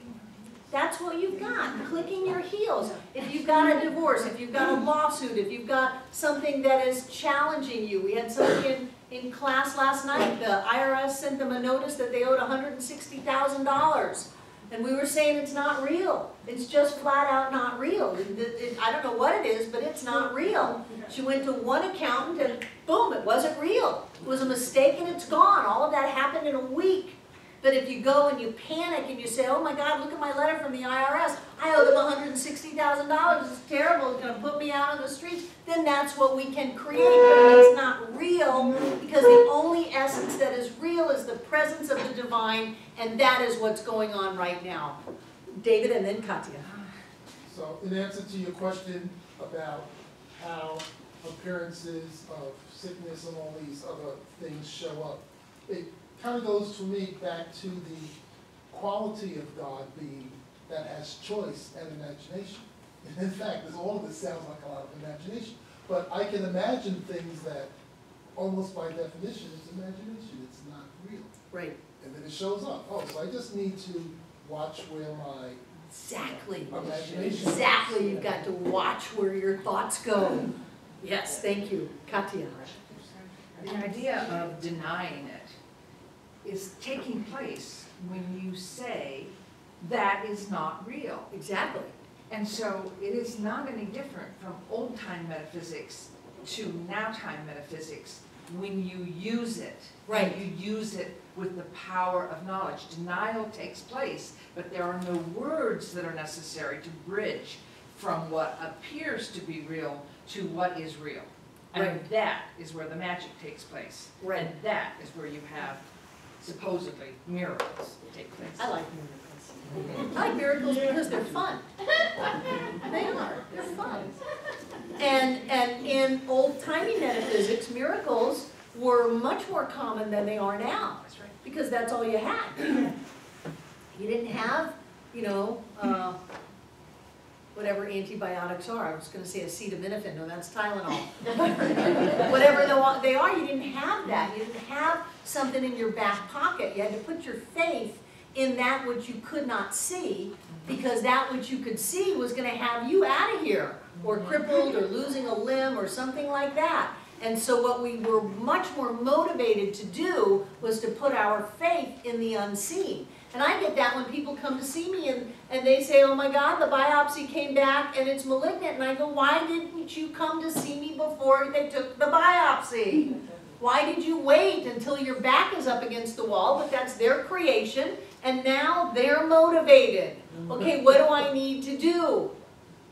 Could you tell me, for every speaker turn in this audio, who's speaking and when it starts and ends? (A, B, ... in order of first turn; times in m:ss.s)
0:00.7-0:45.0 A
0:45.5-0:46.7 A
0:47.4-0:58.2 B
0:58.7-1:07.7 B
1:08.4-1:11.3 B
1:11.5-1:11.8 A
1:12.0-1:15.6 B
1:15.9-1:16.8 A
1:16.6-1:18.3 B
1:16.7-1:18.2 C
1:17.3-1:22.7 A
1:23.6-1:25.6 C
1:26.4-1:31.3 C
1:31.3-1:31.9 A
1:32.3-1:55.8 C
1:40.1-1:40.4 A
1:51.8-1:52.0 A
1:54.2-1:54.5 A
1:56.4-1:58.7 C
1:58.6-2:01.6 A
1:59.8-2:00.0 C
2:02.8-2:04.1 A
2:05.0-2:12.7 A
2:13.9-2:16.2 A
2:17.6-3:02.3 A